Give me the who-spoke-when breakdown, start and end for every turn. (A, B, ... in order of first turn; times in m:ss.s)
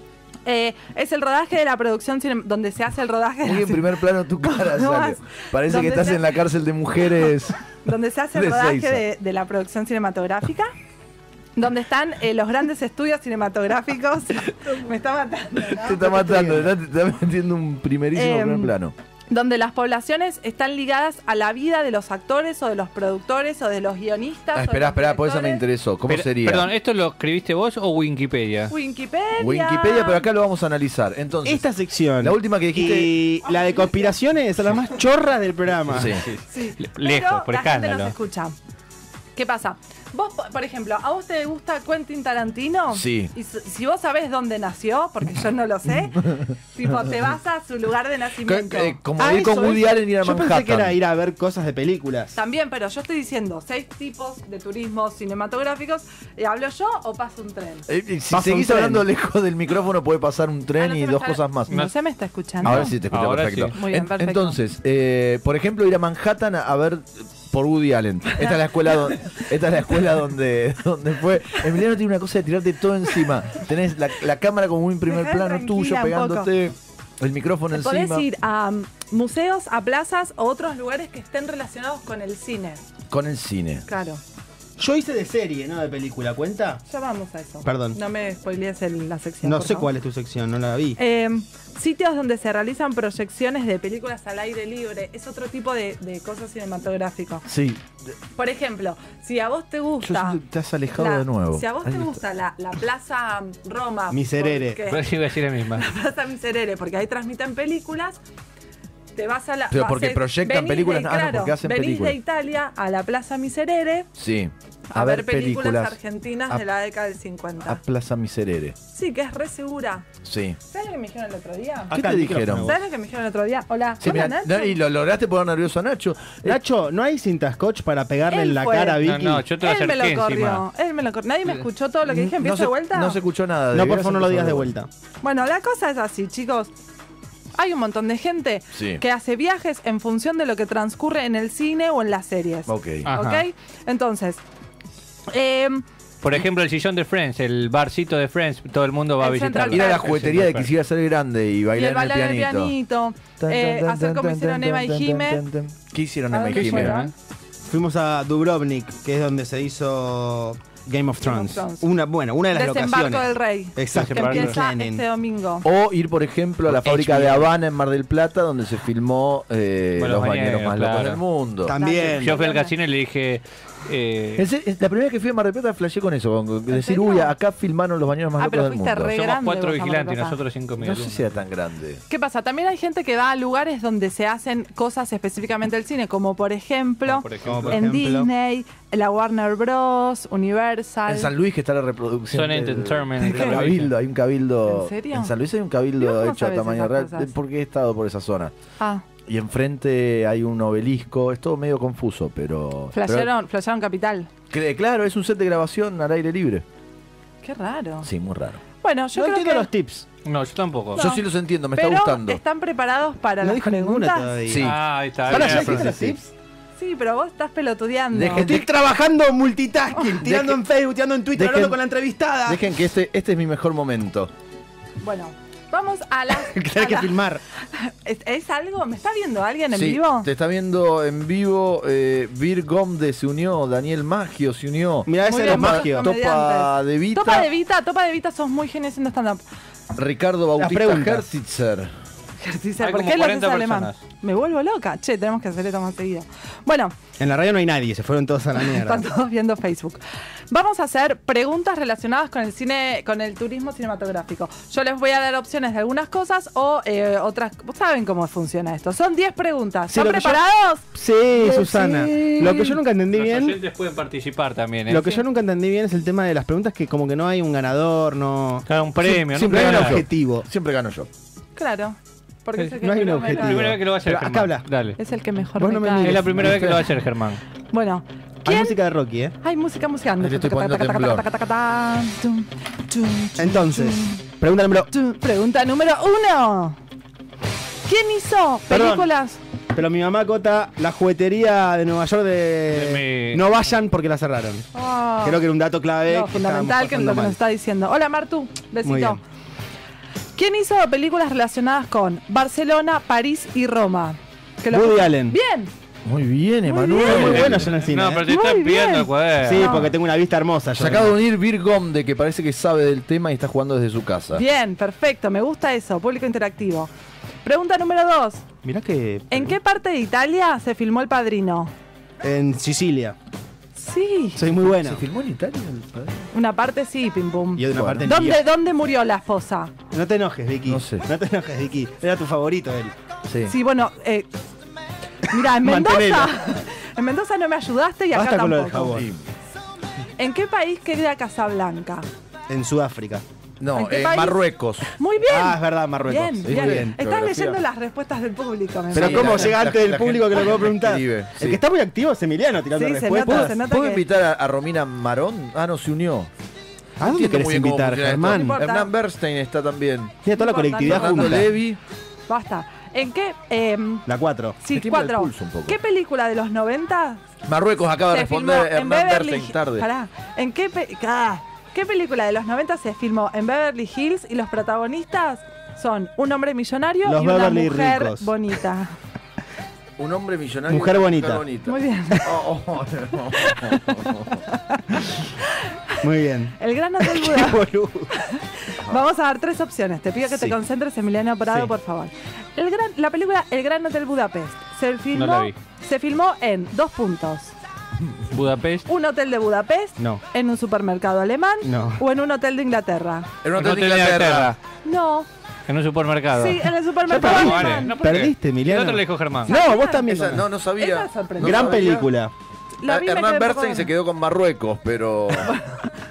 0:00.4-0:03.9 A
0:03.4-0:07.6 B
0:04.4-0:06.3 A
0:07.8-0:10.7 A
0:08.4-0:09.0 B
0:11.6-0:16.0 A
0:15.6-0:18.9 B
0:16.0-0:16.7 C
0:18.1-0:18.8 A
0:19.3-0:25.6 A
0:24.5-0:26.7 B
0:26.1-0:28.7 D
0:28.7-0:30.3 A
0:29.4-0:31.7 B
0:31.4-0:36.1 C
0:32.2-0:33.2 B
0:33.5-0:33.9 A
0:35.9-0:38.1 D
0:35.9-0:36.2 B
0:36.5-0:38.6 A
0:39.4-0:49.0 A
0:42.9-0:43.3 B
0:48.4-0:51.0 B
0:49.2-0:52.4 C
0:52.3-0:57.9 A
0:57.9-1:01.7 B
0:58.3-0:59.1 C
1:00.8-1:03.0 A
1:02.6-1:03.8 D
1:02.6-1:18.3 B
1:03.7-1:04.6 A
1:15.1-1:16.5 A
1:17.7-1:22.8 A
1:23.1-1:23.9 B
1:23.9-1:24.2 A
1:24.8-1:26.8 C
1:26.9-1:29.9 A
1:27.6-1:28.0 C
1:29.4-1:31.0 C
1:31.0-1:37.5 A
1:37.5-1:37.8 B
1:38.4-1:40.4 A
1:40.0-1:42.1 B
1:40.9-1:45.1 A
1:44.1-1:44.8 C
1:44.9-1:45.8 D
1:45.7-1:48.2 A
1:49.2-1:54.1 A
1:49.7-1:52.2 B
1:54.2-1:56.0 B
1:54.9-1:57.8 A
1:57.7-1:58.8 B
1:58.9-2:00.0 A
2:00.2-2:00.6 B
2:00.7-2:02.0 A
2:01.9-2:02.7 B
2:01.9-2:02.8 C
2:02.6-2:04.8 A
2:04.0-2:06.6 B
2:06.4-2:09.4 C
2:08.3-2:09.0 A
2:09.0-2:10.6 D
2:09.6-2:13.2 A
2:12.4-2:14.7 B
2:13.7-2:14.9 C
2:15.2-2:16.7 A
2:17.6-2:24.4 A
2:18.7-2:19.0 B
2:22.7-2:23.1 B
2:23.1-2:23.4 D
2:25.3-2:25.8 A
2:26.2-2:30.7 D
2:29.2-2:30.1 A
2:29.7-2:32.8 B
2:31.8-2:35.4 A
2:33.4-2:37.0 B
2:36.3-2:37.1 A
2:36.5-2:37.1 D
2:37.7-2:45.0 C
2:41.2-2:41.9 A
2:42.5-2:45.7 A
2:44.0-2:44.5 D
2:45.6-2:51.8 B
2:46.7-2:47.5 C
2:50.0-2:51.2 D
2:51.6-2:52.4 C
2:51.8-2:52.8 A
2:52.1-2:54.5 D
2:54.4-2:59.2 B
2:56.7-2:57.4 A
2:58.4-3:00.4 A
2:59.1-3:01.3 D
3:00.8-3:02.0 B
3:02.1-3:11.3 A
3:07.1-3:07.8 D
3:07.4-3:08.3 C
3:11.1-3:18.5 B
3:12.3-3:13.9 D
3:13.2-3:13.6 A
3:14.7-3:15.3 A
3:16.0-3:17.3 A
3:18.8-3:19.0 A
3:19.3-3:23.3 B
3:22.9-3:24.3 A
3:24.5-3:26.6 B
3:27.4-3:28.1 A
3:28.0-3:28.6 B
3:28.8-3:29.7 A
3:29.2-3:30.1 C
3:30.2-3:31.0 D
3:31.0-3:32.4 B
3:31.0-3:34.4 A
3:33.4-3:34.7 C
3:34.5-3:36.1 B
3:34.6-3:36.1 D
3:35.3-3:36.3 C
3:36.8-3:38.6 A
3:38.1-3:38.7 B
3:38.4-3:42.6 C
3:40.2-3:40.6 B
3:41.4-3:41.8 B
3:42.4-3:44.3 B
3:45.0-3:50.3 A
3:46.3-3:47.4 C
3:49.7-3:57.5 B
3:55.1-3:56.1 C
3:55.2-3:59.4 A
3:59.9-4:01.9 B
4:00.6-4:01.2 C
4:02.4-4:07.0 A
4:02.8-4:04.0 D
4:07.2-4:09.1 C
4:08.6-4:20.8 A
4:19.9-4:23.6 C
4:21.3-4:22.8 B
4:23.1-4:25.1 D
4:24.9-4:30.5 C
4:28.7-4:30.0 D
4:29.4-4:31.1 B
4:31.6-4:33.8 A
4:32.8-4:34.7 C
4:33.2-4:35.0 D
4:35.0-4:36.3 A
4:35.6-4:36.6 C
4:36.0-4:37.4 D
4:36.4-4:36.9 B
4:37.7-4:38.8 A
4:38.4-4:39.4 C
4:39.4-4:44.2 A
4:40.2-4:41.3 B
4:43.4-4:44.9 C
4:44.9-4:46.8 A
4:47.8-4:49.4 A
4:48.7-4:49.1 C
4:49.7-4:54.7 C
4:52.7-4:53.5 D
4:54.7-4:55.4 A
4:55.2-4:57.4 C
4:56.1-4:59.2 A
4:58.8-4:59.2 C
5:00.4-5:05.7 A
5:04.7-5:05.4 C
5:06.0-5:07.7 B
5:06.6-5:07.5 A
5:06.9-5:08.3 C
5:07.0-5:09.8 D
5:08.2-5:09.9 A
5:09.4-5:11.2 C
5:10.8-5:14.4 B
5:14.3-5:16.9 A
5:17.4-5:18.4 A
5:18.6-5:19.6 C
5:19.3-5:21.7 A
5:22.2-5:23.2 C
5:23.8-5:24.5 A
5:24.4-5:25.0 C
5:24.8-5:26.2 B
5:26.3-5:29.7 A
5:27.6-5:28.4 C
5:27.7-5:28.1 B
5:29.9-5:32.9 C
5:30.6-5:31.0 B
5:33.3-5:33.6 B
5:33.4-5:34.3 A
5:35.3-5:39.0 A
5:35.6-5:36.3 C
5:38.1-5:39.1 C
5:38.9-5:39.2 B
5:40.2-5:42.1 A
5:42.5-5:43.2 C
5:43.6-5:44.9 B
5:43.7-5:49.6 A
5:45.3-5:47.0 C
5:46.4-5:47.6 B
5:48.9-5:51.6 B
5:48.9-5:53.6 C
5:52.7-5:54.0 A
5:53.3-5:56.3 B
5:57.0-5:58.6 C
5:57.0-6:00.2 B
5:58.3-5:58.9 A
6:00.2-6:01.5 C
6:00.3-6:01.5 A
6:00.8-6:01.8 B
6:02.3-6:04.1 A
6:04.1-6:04.6 C
6:04.6-6:07.2 A
6:04.7-6:05.8 B
6:07.4-6:09.9 B
6:08.1-6:19.0 A
6:17.0-6:18.3 C
6:20.0-6:24.4 B
6:20.7-6:21.4 C
6:21.6-6:22.3 A
6:23.4-6:26.0 A
6:26.0-6:28.1 C
6:26.6-6:37.5 A
6:28.8-6:29.0 B
6:30.3-6:30.6 C
6:31.5-6:31.7 C
6:35.1-6:35.6 D
6:38.3-6:38.8 D
6:38.9-6:43.3 A
6:41.6-6:42.0 C
6:43.4-6:44.6 B
6:43.6-6:44.6 D
6:44.8-6:45.3 A
6:45.7-6:49.6 D
6:46.3-6:48.0 A
6:47.1-6:50.5 C
6:49.5-6:50.1 A
6:50.0-6:52.1 B
6:50.8-6:52.0 A
6:51.4-6:52.3 C
6:52.8-6:53.9 A
6:52.9-6:55.6 B
6:55.5-6:55.8 A